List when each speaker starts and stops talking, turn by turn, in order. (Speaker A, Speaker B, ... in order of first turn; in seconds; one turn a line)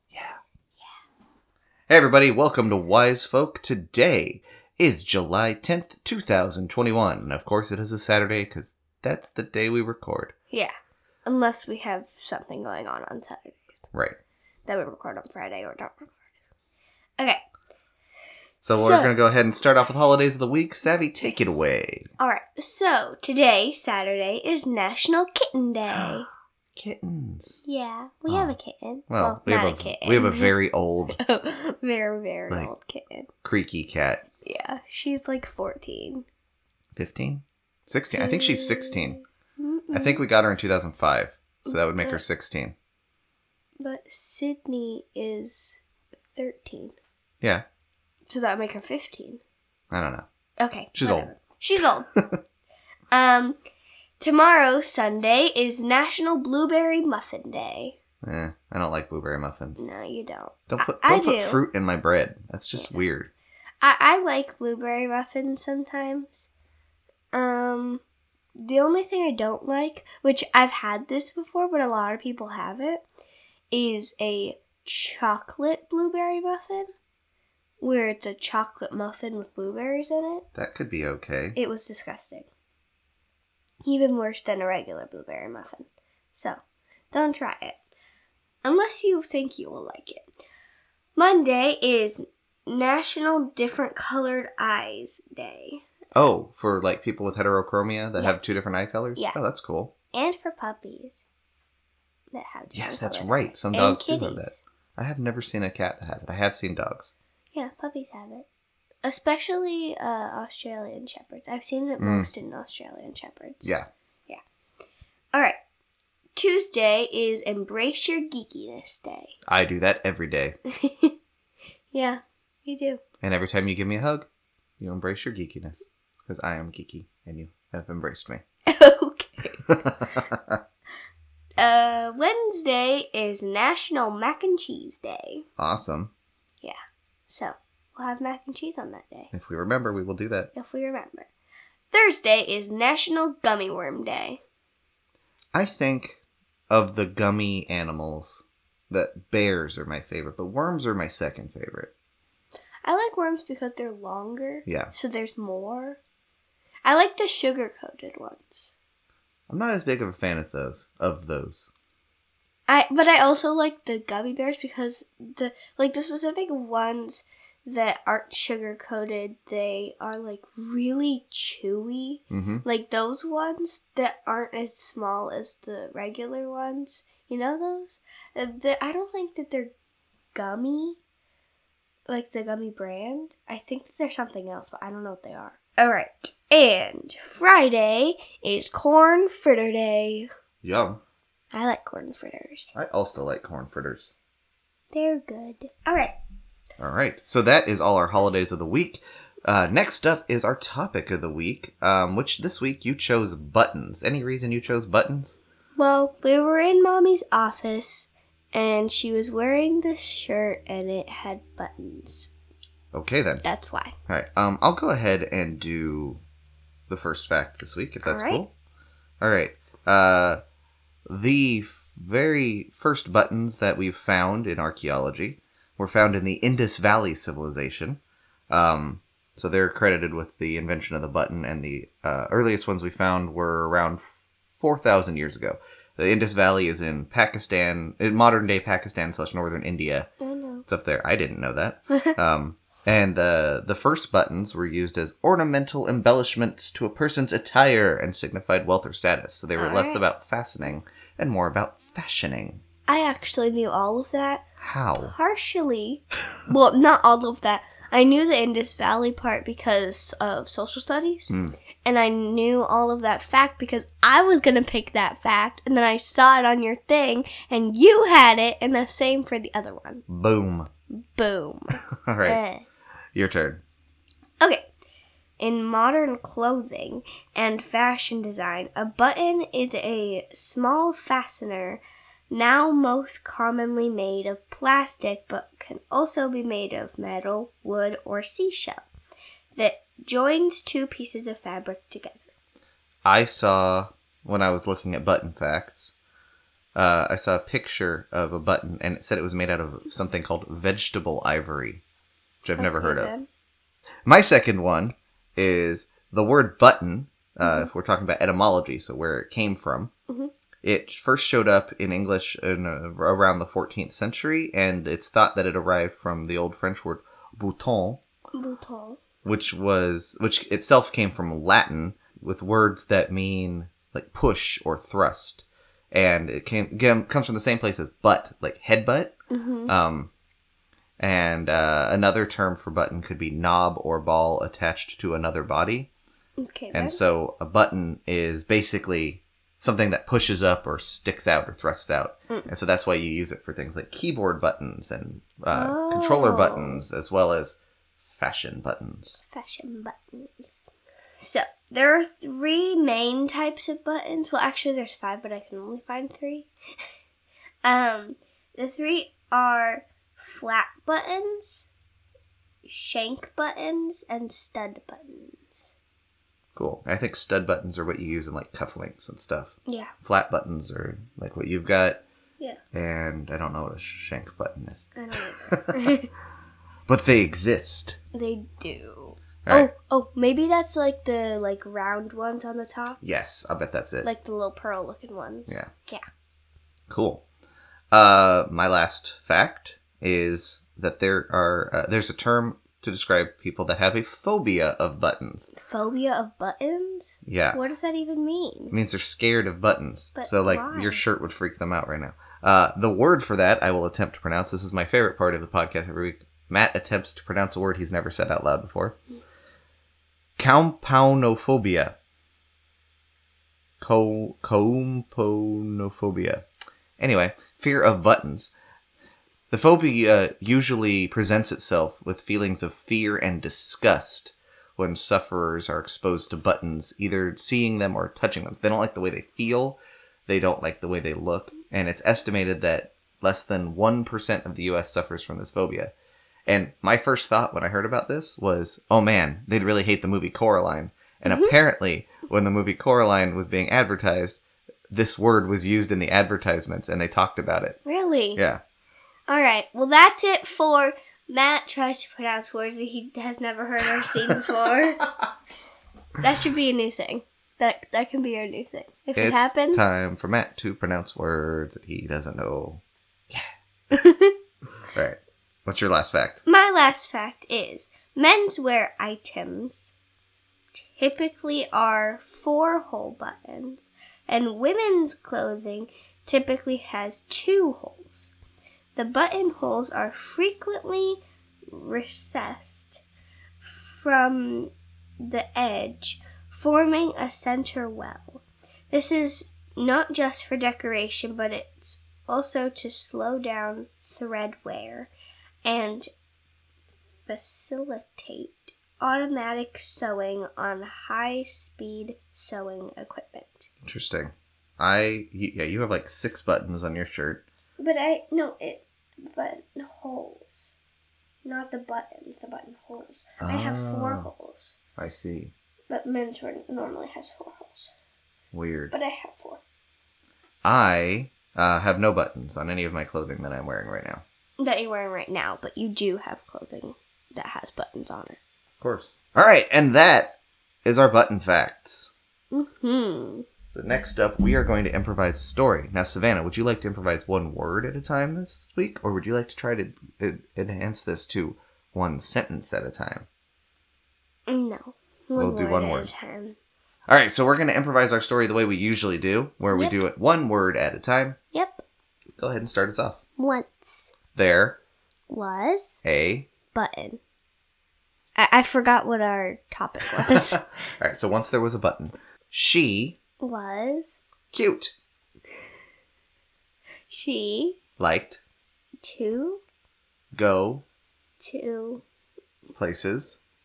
Speaker A: 0.1-0.4
Speaker A: 1.9-10.3
Speaker B: 11.2-13.8
Speaker A: 13.9-14.2
Speaker B: 14.7-16.2
Speaker A: 18.6-22.1
Speaker B: 18.7-19.1
Speaker B: 21.2-21.6
Speaker B: 22.2-26.3
Speaker A: 26.8-27.6
Speaker B: 27.6-30.5
Speaker A: 28.3-28.6
Speaker A: 29.1-31.2
Speaker B: 31.2-33.3
Speaker A: 33.4-34.2
Speaker B: 34.4-36.2
Speaker A: 36.9-39.2
Speaker B: 38.1-40.2
Speaker A: 39.9-42.7
Speaker B: 41.7-42.2
Speaker B: 43.8-45.8
Speaker B: 46.3-46.9
Speaker B: 48.3-49.4
Speaker A: 49.9-50.2
Speaker B: 50.6-52.1
Speaker A: 50.9-51.3
Speaker B: 53.1-53.6
Speaker B: 54.2-58.0
Speaker A: 58.2-59.9
Speaker B: 59.8-61.6
Speaker A: 60.7-63.3
Speaker B: 63.8-66.5
Speaker B: 67.3-68.0
Speaker B: 68.6-73.0
Speaker B: 73.7-76.9
Speaker B: 77.8-80.5
Speaker A: 80.5-81.6
Speaker B: 81.5-82.5
Speaker B: 83.8-86.6
Speaker B: 87.1-87.8
Speaker B: 88.6-90.3
Speaker B: 91.2-95.8
Speaker A: 96.1-99.9
Speaker B: 100.1-101.2
Speaker B: 102.3-104.6
Speaker A: 102.7-107.1
Speaker B: 107.5-108.5
Speaker B: 109.0-113.7
Speaker A: 112.0-112.3
Speaker A: 113.6-113.9
Speaker B: 116.3-119.3
Speaker A: 119.5-120.5
Speaker B: 120.7-121.1
Speaker B: 121.9-123.0
Speaker A: 123.2-124.3
Speaker A: 124.8-128.4
Speaker B: 128.7-129.6
Speaker A: 129.7-130.6
Speaker B: 131.6-135.4
Speaker A: 135.6-136.1
Speaker B: 137.3-139.3
Speaker A: 139.3-140.5
Speaker B: 140.5-141.3
Speaker B: 141.9-144.4
Speaker A: 145.5-151.9
Speaker B: 152.8-156.0
Speaker A: 154.7-154.9
Speaker B: 156.8-158.7
Speaker A: 159.5-161.7
Speaker B: 162.7-179.7
Speaker A: 172.3-172.7
Speaker B: 180.3-181.0
Speaker B: 182.1-190.3
Speaker A: 190.6-191.0
Speaker B: 191.5-192.7
Speaker A: 192.7-194.1
Speaker B: 194.9-196.1
Speaker A: 196.8-205.4
Speaker B: 205.8-212.3
Speaker A: 212.9-213.4
Speaker B: 213.4-213.9
Speaker A: 214.1-216.2
Speaker A: 216.9-218.5
Speaker B: 218.0-218.4
Speaker A: 219.2-220.4
Speaker A: 221.1-240.1
Speaker B: 240.2-240.6
Speaker A: 240.7-252.6
Speaker B: 249.6-250.0
Speaker B: 252.9-254.4
Speaker A: 254.6-255.1
Speaker B: 255.0-261.3
Speaker A: 261.3-261.6
Speaker B: 261.8-270.0
Speaker A: 270.1-270.7
Speaker B: 271.1-272.6
Speaker A: 272.0-272.4
Speaker A: 273.1-273.6
Speaker B: 274.4-274.6
Speaker B: 275.4-288.8
Speaker B: 289.6-292.3
Speaker A: 293.0-295.9
Speaker A: 296.7-301.8
Speaker A: 302.4-303.1
Speaker B: 302.6-303.3
Speaker A: 304.1-309.9
Speaker B: 307.4-307.7
Speaker A: 310.6-318.0
Speaker B: 318.4-319.0
Speaker A: 319.2-329.1
Speaker B: 329.3-329.7
Speaker A: 329.7-330.1
Speaker A: 331.0-335.9
Speaker B: 336.4-337.0
Speaker A: 336.7-349.2
Speaker B: 345.5-346.8
Speaker B: 349.3-350.7
Speaker B: 351.2-356.5
Speaker B: 357.6-361.7
Speaker B: 362.6-365.7
Speaker A: 366.5-372.0
Speaker B: 369.7-369.9
Speaker A: 372.7-375.9
Speaker B: 374.9-376.1
Speaker A: 376.9-378.0
Speaker B: 378.1-383.0
Speaker A: 379.4-379.7
Speaker A: 383.0-384.1
Speaker B: 384.0-386.0
Speaker A: 386.9-387.2
Speaker A: 387.9-395.5
Speaker B: 395.6-398.8
Speaker A: 397.2-397.6
Speaker A: 398.7-409.0
Speaker B: 400.1-401.1
Speaker A: 410.4-411.9
Speaker A: 413.8-416.4
Speaker A: 417.0-418.5
Speaker A: 419.5-435.9
Speaker A: 436.5-444.4
Speaker B: 441.2-441.5
Speaker A: 444.9-447.8
Speaker B: 447.8-448.4
Speaker A: 448.4-448.6
Speaker B: 449.3-455.0
Speaker B: 456.2-459.9
Speaker A: 459.1-463.5
Speaker B: 463.9-464.3
Speaker A: 464.9-466.4
Speaker B: 466.4-469.9
Speaker B: 470.8-478.3
Speaker B: 478.9-483.0
Speaker B: 483.6-495.1
Speaker B: 495.6-496.1
Speaker B: 497.3-503.7
Speaker A: 503.8-507.4
Speaker B: 507.8-510.7
Speaker B: 511.4-514.7
Speaker A: 513.4-514.3
Speaker A: 515.0-515.5
Speaker B: 515.9-517.9
Speaker A: 518.5-518.9
Speaker B: 518.9-519.6
Speaker A: 520.6-524.2
Speaker B: 524.6-528.4
Speaker A: 528.8-532.1
Speaker B: 532.5-533.5
Speaker A: 533.7-543.3
Speaker B: 544.5-546.5
Speaker A: 545.4-546.1
Speaker A: 547.1-551.4
Speaker B: 549.7-550.0
Speaker B: 551.5-551.8
Speaker A: 552.4-553.2
Speaker B: 553.4-554.1
Speaker A: 554.3-554.8
Speaker B: 555.3-556.0
Speaker A: 556.0-556.5
Speaker B: 556.7-557.2
Speaker B: 558.4-560.6
Speaker A: 560.2-563.2
Speaker B: 563.4-564.2
Speaker A: 564.5-564.9
Speaker B: 567.1-567.8
Speaker A: 568.0-568.4
Speaker B: 569.0-569.6
Speaker A: 570.3-570.8
Speaker B: 571.4-572.0
Speaker A: 572.7-573.4